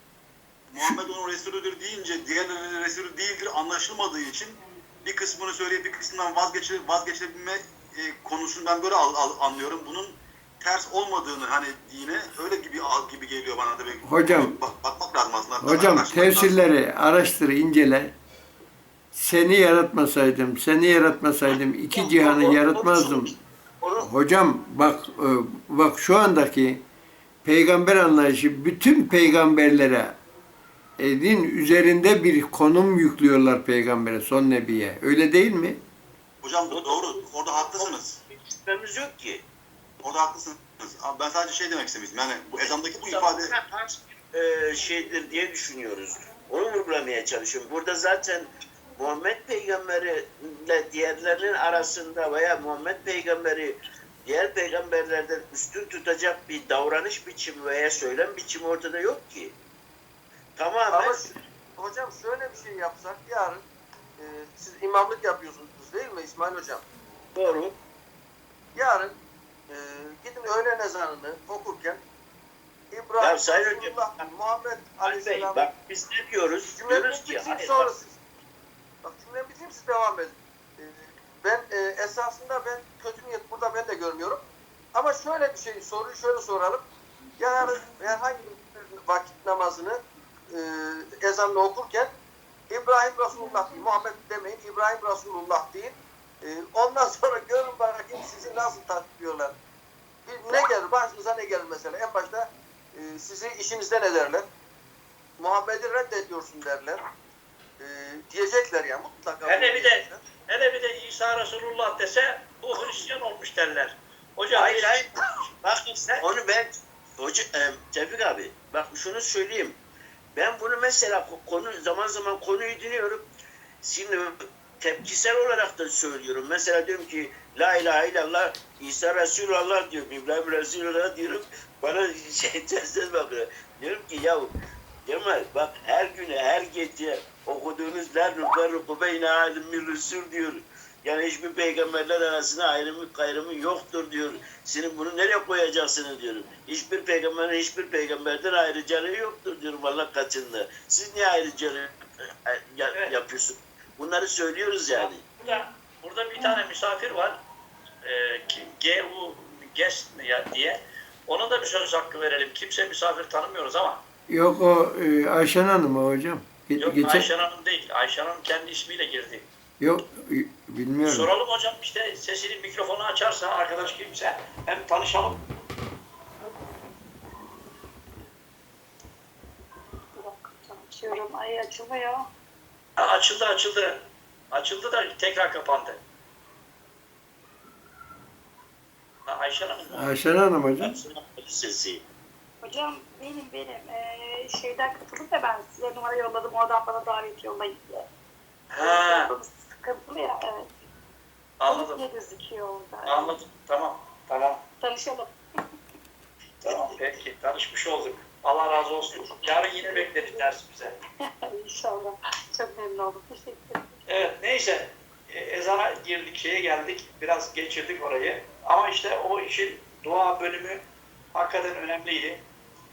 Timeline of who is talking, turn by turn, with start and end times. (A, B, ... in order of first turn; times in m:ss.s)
0:00.7-0:16.5 A
0:14.0-0:14.5 B
0:15.6-0:18.1 B
0:19.1-0:23.3 B
0:21.9-0:24.1 C
0:24.0-0:26.8 B
0:27.4-0:30.2 B
0:31.0-0:35.8 B
0:36.4-0:38.2 A
0:36.7-0:39.4 C
0:40.0-0:43.6 A
0:42.6-0:59.5 C
1:00.6-1:01.2 C
1:00.9-1:03.6 D
1:04.2-1:06.8 D
1:07.3-1:07.7 C
1:08.7-1:09.2 D
1:09.7-1:12.0 D
1:12.9-1:15.7 D
1:13.2-1:14.2 C
1:15.0-1:17.9 C
1:16.7-1:18.2 D
1:19.0-1:24.4 D
1:24.9-1:26.8 D
1:27.4-1:32.1 D
1:32.7-1:39.5 D
1:40.2-1:44.4 D
1:45.4-1:47.0 D
1:47.8-1:50.2 D
1:49.4-1:55.2 E
1:54.5-1:55.1 C
1:55.6-1:59.8 C
2:00.3-2:03.2 C
2:03.8-2:14.5 C
2:15.0-2:35.2 C
2:34.9-2:37.4 E
2:38.0-2:44.0 E
2:44.3-2:47.3 B
2:46.8-2:49.4 E
2:49.8-2:51.3 B
2:51.0-2:55.4 E
3:00.2-3:02.2 F
3:03.0-3:04.0 E
3:04.5-3:06.0 E
3:09.3-3:10.2 E
3:09.9-3:11.0 B
3:10.8-3:12.0 C
3:12.6-3:18.1 F
3:18.7-3:19.3 E
3:18.8-3:20.7 F
3:21.6-3:22.0 E
3:21.6-3:23.4 F
3:23.0-3:24.6 E
3:24.8-3:25.3 F
3:26.6-3:31.0 E
3:26.6-3:26.9 F
3:29.1-3:30.5 F
3:31.2-3:34.2 F
3:34.1-3:40.8 E
3:41.3-3:42.4 E